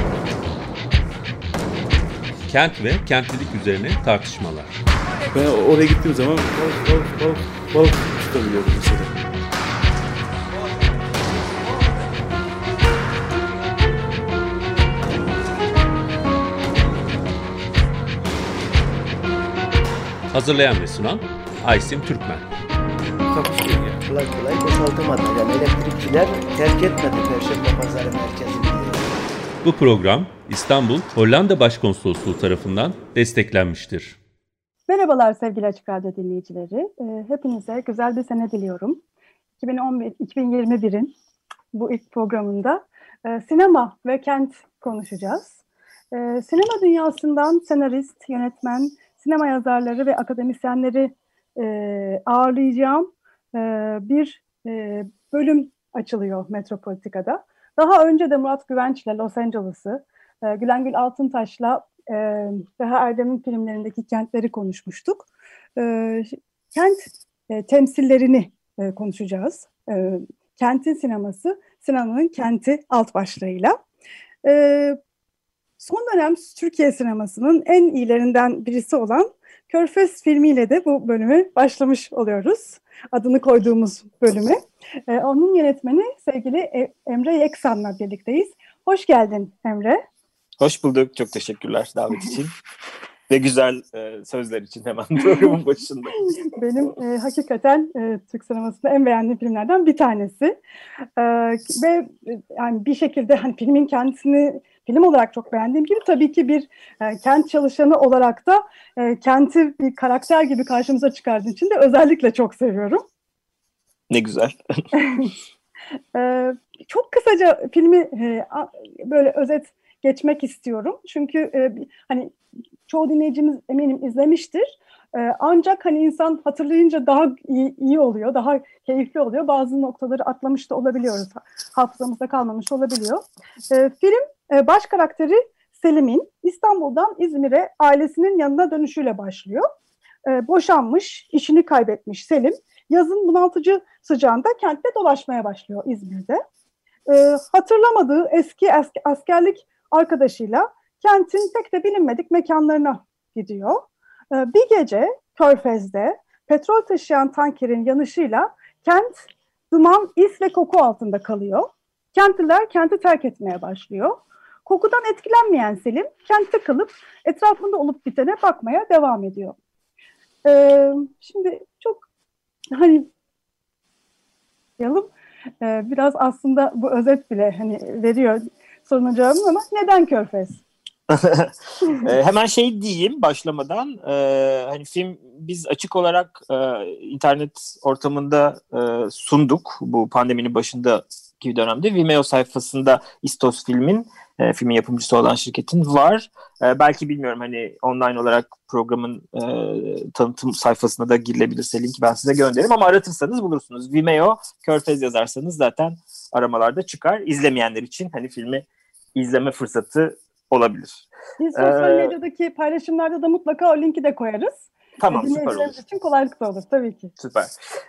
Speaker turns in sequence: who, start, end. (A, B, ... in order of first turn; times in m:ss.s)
0:02.5-0:04.8 A
0:05.3-0:09.1 B
0:20.3-0:22.5 A
0:23.3-0:29.1 C
0:29.6-0:34.2 A
0:34.9-0:39.0 D
0:39.6-0:41.1 D
0:41.7-0:45.6 D
0:46.1-1:13.8 D
1:14.4-1:15.0 D
1:15.8-1:30.0 D
1:30.6-1:32.5 E
1:33.3-1:36.2 E
1:36.3-1:40.6 D
1:41.2-1:53.0 D
1:54.1-1:54.6 E
1:55.0-1:55.3 D
1:56.2-2:02.4 D
2:02.9-2:19.7 D
2:20.3-2:26.4 D
2:27.1-2:39.2 D
2:39.7-2:49.6 D
2:50.4-2:52.0 D
2:52.7-2:53.1 D
2:54.8-2:55.1 D
2:55.6-3:00.6 D
3:01.1-3:28.6 E
3:29.2-3:32.1 E
3:31.4-3:37.1 D
3:35.0-3:35.8 E
3:37.2-3:37.5 E